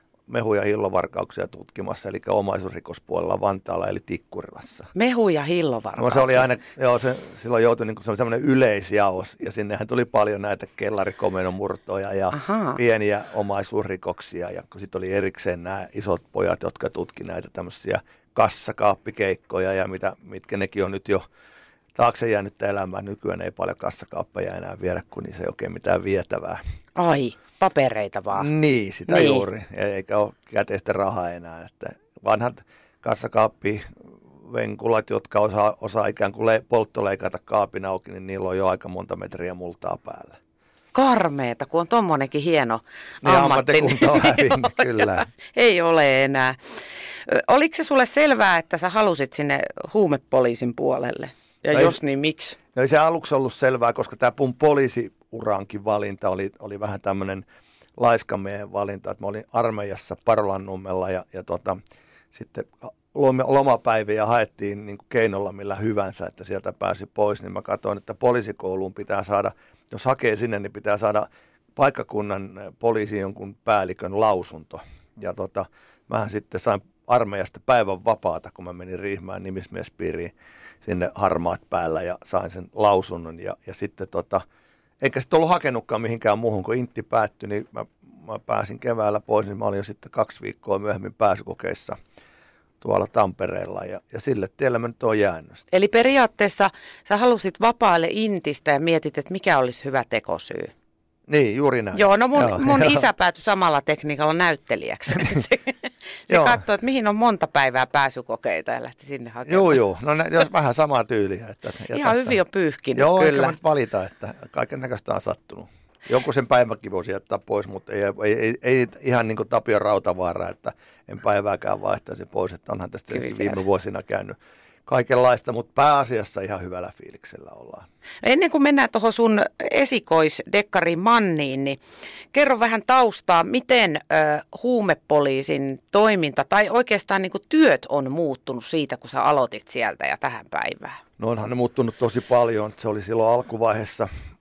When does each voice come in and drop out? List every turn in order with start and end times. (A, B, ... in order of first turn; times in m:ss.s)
0:00.3-0:04.9 A
0:04.9-0:06.5 B
0:06.0-0:21.2 A
0:12.3-0:12.8 B
0:22.0-0:26.6 A
0:27.0-0:28.5 B
0:28.3-0:33.9 A
0:29.1-0:29.4 B
0:34.4-0:40.4 A
0:40.9-0:46.6 B
0:43.2-0:45.3 A
0:47.3-0:52.6 B
0:51.7-0:52.0 A
0:52.7-0:57.4 A
0:58.0-1:01.8 A
1:02.3-1:20.3 A
1:20.8-1:24.4 A
1:25.0-1:32.0 A
1:32.8-1:35.7 A
1:35.7-1:40.7 B
1:41.3-1:43.0 A
1:41.9-1:49.8 B
1:46.3-1:46.6 A
1:49.5-1:52.4 A
1:51.9-1:53.6 B
1:52.9-2:07.9 A
2:03.1-2:03.6 B
2:08.2-2:11.8 B
2:12.3-2:21.0 B
2:21.2-2:24.1 A